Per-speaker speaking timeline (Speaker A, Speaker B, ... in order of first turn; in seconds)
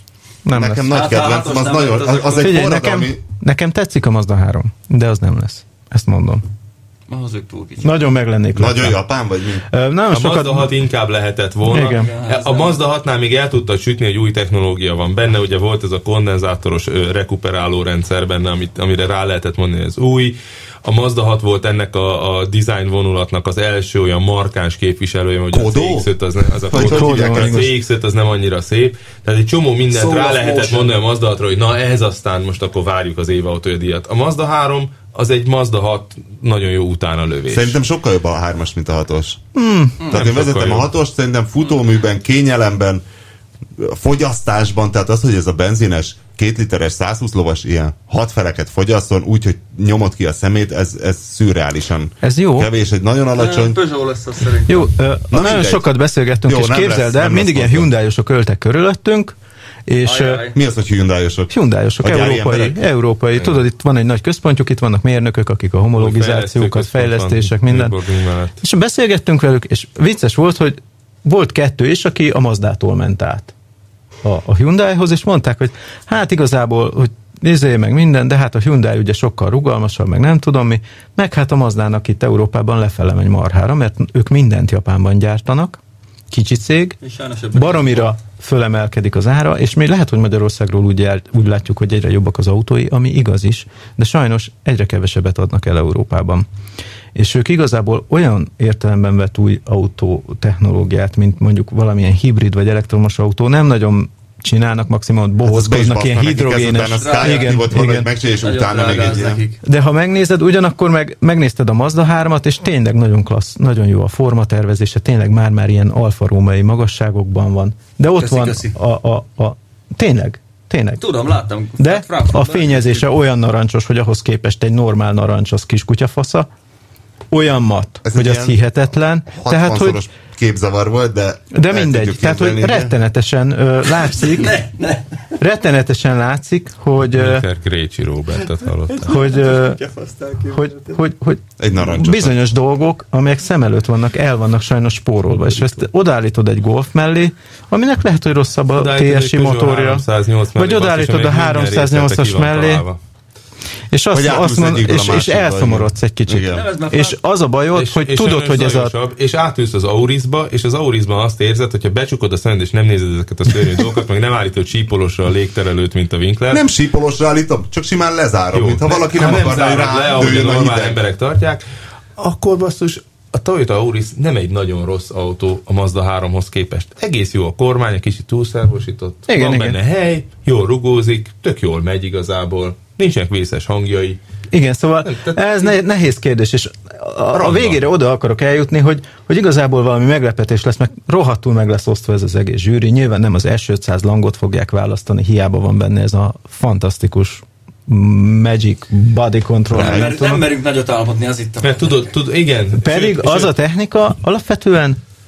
Speaker A: 0.5-1.0, 2.4-6.4, 7.8-9.0, 9.7-10.8, 11.7-12.1, 26.7-27.7, 39.5-40.0, 52.2-52.7, 54.7-59.4, 59.9-60.5, 61.5-68.0, 68.6-73.5, 74.2-85.8, 86.3-87.0, 87.5-96.5, 97.2-108.1, 109.6-121.0, 121.8-126.5, 127.3-130.0, 131.5-134.6, 135.4-137.5, 139.1-139.8, 140.5-152.9, 153.9-158.9, 179.3-179.8, 184.5-200.4, 202.8-205.0
Speaker B: 0.5-3.2, 8.6-9.7, 25.5-26.1, 26.7-27.7, 37.5-39.4, 40.1-43.0, 43.8-53.8, 55.3-57.9, 60.5-62.8, 105.4-109.4, 128.0-128.6, 129.3-132.9, 141.6-142.4, 154.1-156.6, 166.5-171.0, 199.8-200.1
Speaker C: 0.9-2.7, 7.1-8.0, 11.9-12.8, 29.9-30.9, 53.3-54.9, 60.0-60.6, 87.0-88.2, 106.9-107.8, 108.4-109.6, 118.2-118.7, 121.0-123.1, 134.0-135.1, 138.9-141.0, 156.5-157.2, 199.8-202.1
Speaker D: 10.1-37.8, 40.1-40.9, 63.4-63.6, 66.0-68.6, 137.1-139.2, 145.3-145.8, 148.7-153.0, 157.8-166.6, 168.5-171.6, 172.2-184.2, 185.0-185.8, 187.4-187.8, 201.6-203.5